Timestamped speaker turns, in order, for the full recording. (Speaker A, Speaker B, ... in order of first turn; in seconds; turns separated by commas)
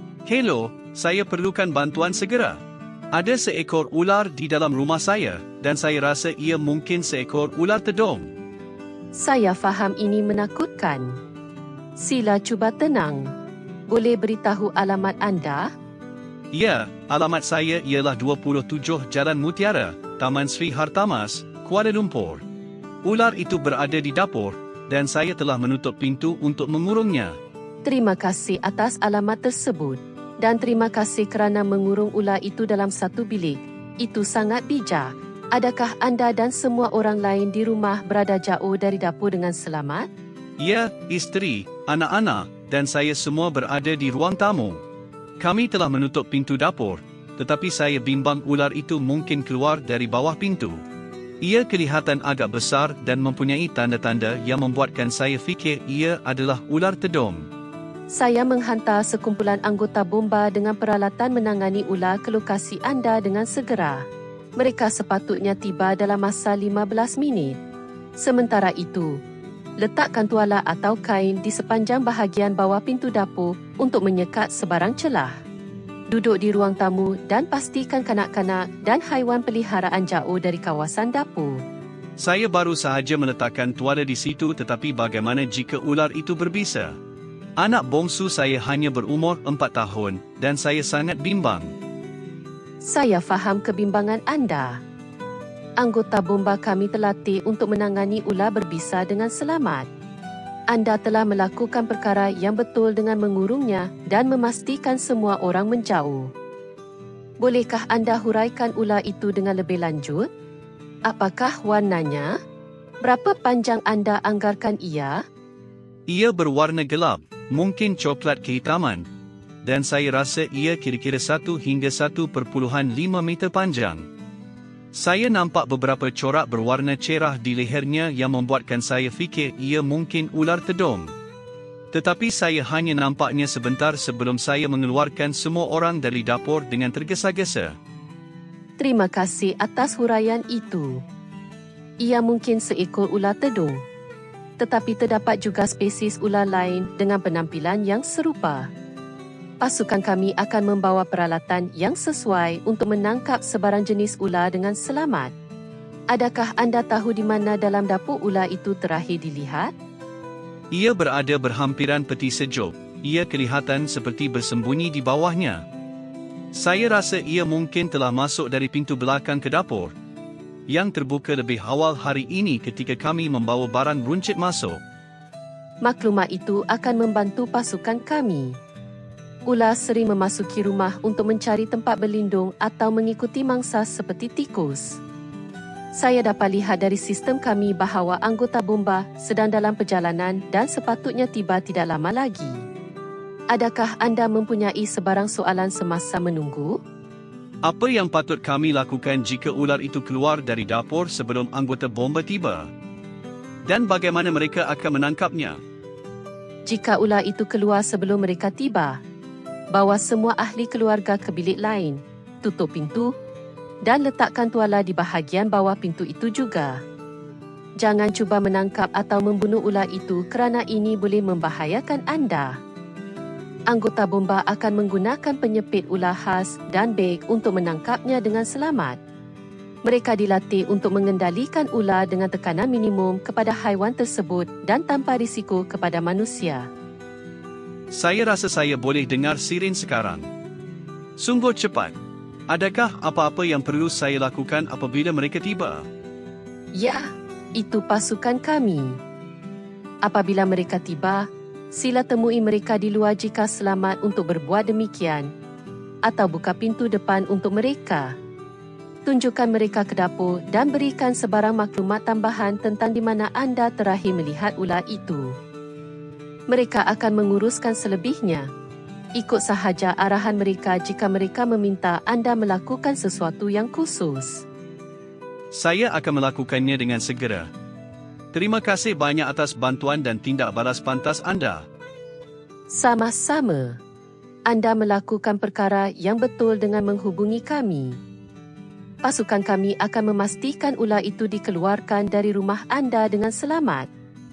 Speaker A: 0.2-2.6, Speaker A: 3.1-8.3, Speaker B: 9.1-11.2, Speaker B: 12.0-13.3, Speaker B: 13.9-15.7, Speaker A: 16.5-22.4, Speaker A: 23.0-27.3, Speaker B: 27.8-40.1, Speaker A: 40.6-44.8, Speaker A: 45.4-50.8, Speaker A: 51.4-57.4, Speaker B: 58.1-64.0, Speaker B: 64.6-67.6, Speaker B: 68.2-69.1, Speaker B: 69.8-75.3, Speaker B: 76.1-81.6, Speaker A: 82.2-87.0, Speaker A: 87.6-91.7, Speaker B: 92.8-94.8, Speaker B: 95.8-99.9, Speaker B: 100.7-106.3, Speaker B: 107.4-110.3, Speaker B: 111.1-112.3, Speaker B: 113.0-115.2, Speaker A: 116.1-119.1, Speaker A: 119.6-124.1, Speaker A: 124.9-131.1, Speaker A: 131.9-137.7, Speaker B: 138.8-141.0, Speaker B: 142.0-143.8, Speaker B: 144.6-148.6, Speaker B: 149.6-155.3, Speaker B: 156.1-159.7, Speaker A: 160.7-165.6, Speaker A: 166.5-169.9, Speaker A: 170.7-174.8, Speaker B: 175.8-178.5, Speaker B: 179.5-185.0, Speaker B: 186.0-192.6, Speaker B: 193.5-196.7, Speaker A: 197.6-202.7, Speaker A: 203.7-205.6, Speaker B: 206.7-209.0, Speaker B: 209.7-213.1, Speaker B: 213.8-216.7, Speaker B: 217.8-222.5, Speaker B: 223.7-229.0, Speaker B: 229.8-236.7, Speaker A: 237.9-240.3, Speaker A: 241.2-242.0, Speaker A: 242.5-245.8, Speaker B: 246.8-247.0, Speaker B: 247.6-249.0, Speaker B: 250.1-255.3, Speaker B: 256.1-258.1, Speaker B: 259.1-265.3, Speaker B: 266.5-268.5, Speaker B: 269.2-274.4, Speaker A: 275.5-277.5, Speaker A: 278.3-281.6, Speaker B: 282.7-283.8, Speaker B: 284.5-288.0, Speaker B: 289.0-293.9